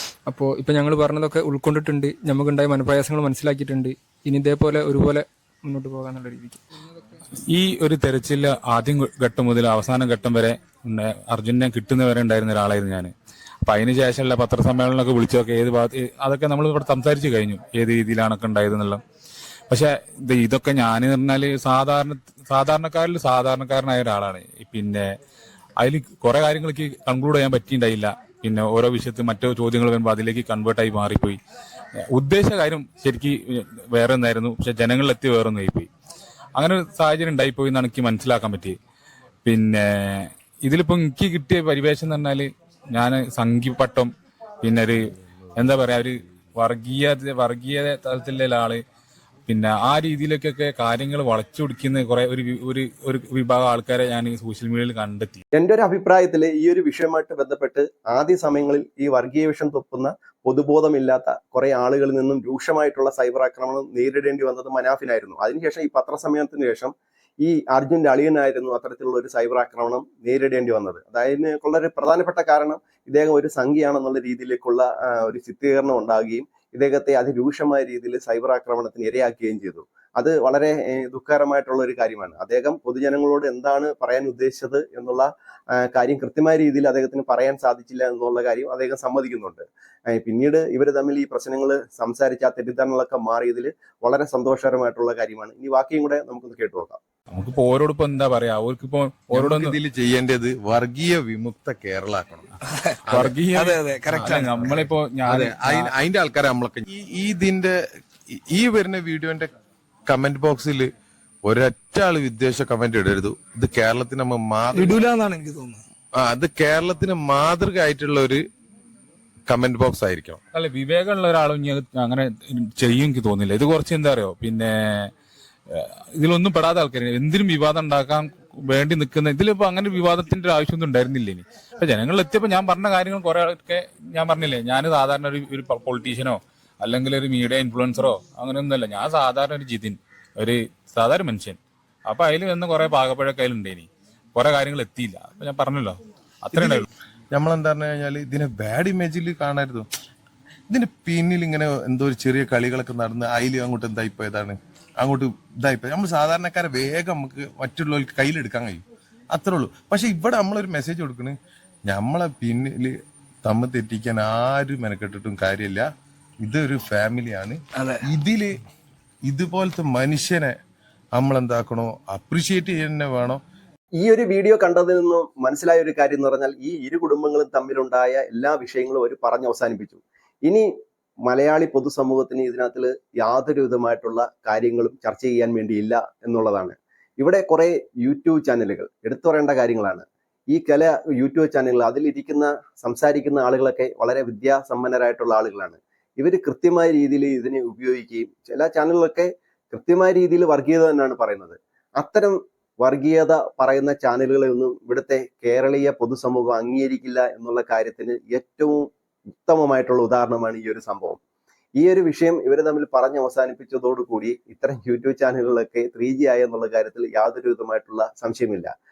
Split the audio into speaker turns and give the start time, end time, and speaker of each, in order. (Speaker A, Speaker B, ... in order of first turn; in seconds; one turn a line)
Speaker A: 0.3-6.6
Speaker B: 7.5-13.1
Speaker B: 13.6-19.0
Speaker B: 19.7-25.1
Speaker B: 25.8-31.4
Speaker B: 32.1-35.9
Speaker B: 36.5-38.8
Speaker B: 39.4-48.8
Speaker B: 49.5-55.4
Speaker C: 55.5-85.3
Speaker C: 85.8-97.0
Speaker B: 97.3-99.8
Speaker D: 99.3-102.5
Speaker D: 103.0-103.4
Speaker B: 103.1-105.9
Speaker E: 103.5-104.4
Speaker D: 104.1-107.7
Speaker D: 108.3-109.5
Speaker D: 110.1-110.9
Speaker D: 111.5-115.0
Speaker E: 114.7-115.8
Speaker D: 116.2-118.4
Speaker D: 119.5-120.4
Speaker B: 120.5-125.1
Speaker B: 125.7-146.9
Speaker D: 146.5-149.9
Speaker D: 150.7-165.9
Speaker D: 166.4-168.6
Speaker D: 169.2-170.5
Speaker D: 171.2-173.4
Speaker C: 174.0-180.7
Speaker C: 181.3-208.9
Speaker C: 209.4-211.2
Speaker C: 211.8-218.7